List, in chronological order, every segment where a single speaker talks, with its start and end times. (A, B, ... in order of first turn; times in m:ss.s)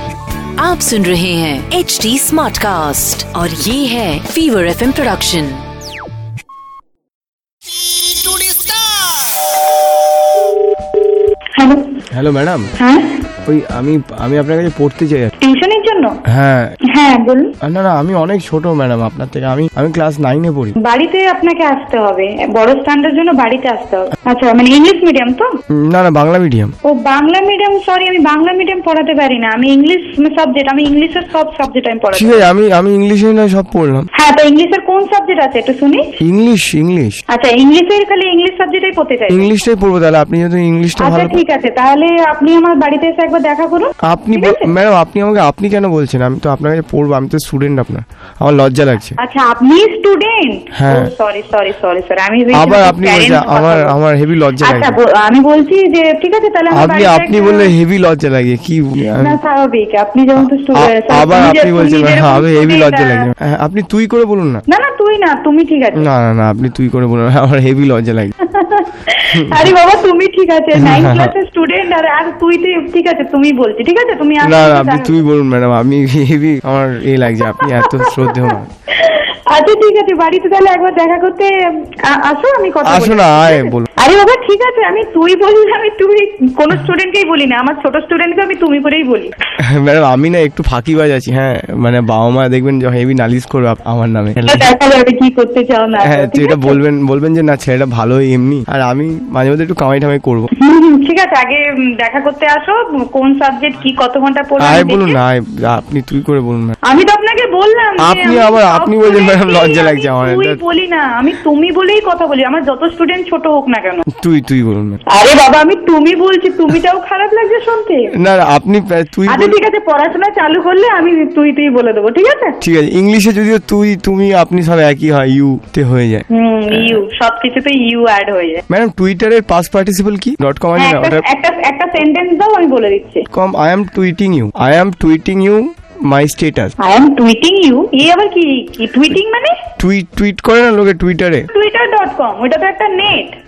0:00.6-0:05.6 A
0:08.2-0:08.6 A
0:11.6-0:12.0 B
0:12.1-0:12.7 C
0:12.8-0:13.2 B
0:13.4-0:15.3 C
0:15.4-0:16.2 B
0:16.3-0:16.7 C
0:16.9-0:17.6 B
0:17.6-0:20.8 C
0:20.8-0:25.5 B
0:25.7-0:26.8 C
0:26.8-0:32.5 B
0:32.1-0:34.1 C
0:34.2-0:36.1 B
0:36.2-0:37.2 C
0:37.3-0:39.5 B
0:39.3-0:41.4 C
0:41.0-0:44.7 B
0:44.0-0:49.2 C
0:49.2-0:54.0 B
0:50.7-0:51.1 C
0:52.5-0:55.0 C
0:54.6-0:57.7 B
0:56.7-0:59.4 C
0:59.2-1:03.3 B
1:00.7-1:04.6 C
1:04.7-1:06.1 B
1:06.0-1:08.4 C
1:08.5-1:15.2 B
1:09.3-1:09.7 C
1:10.8-1:11.3 C
1:14.4-1:18.7 C
1:17.5-1:29.3 B
1:22.8-1:23.9 C
1:29.6-1:34.7 C
1:34.5-1:36.8 B
1:36.0-1:40.5 C
1:40.6-1:45.2 B
1:44.6-1:46.8 C
1:46.9-1:54.0 B
1:48.0-1:50.6 C
1:54.1-1:55.0 C
1:55.1-1:58.1 B
1:58.2-1:59.6 C
1:59.3-2:02.6 B
2:02.6-2:07.0 C
2:06.3-2:08.6 B
2:08.7-2:11.2 C
2:10.8-2:13.3 B
2:13.3-2:16.7 C
2:16.8-2:19.5 B
2:19.8-2:21.5 C
2:21.5-2:23.4 B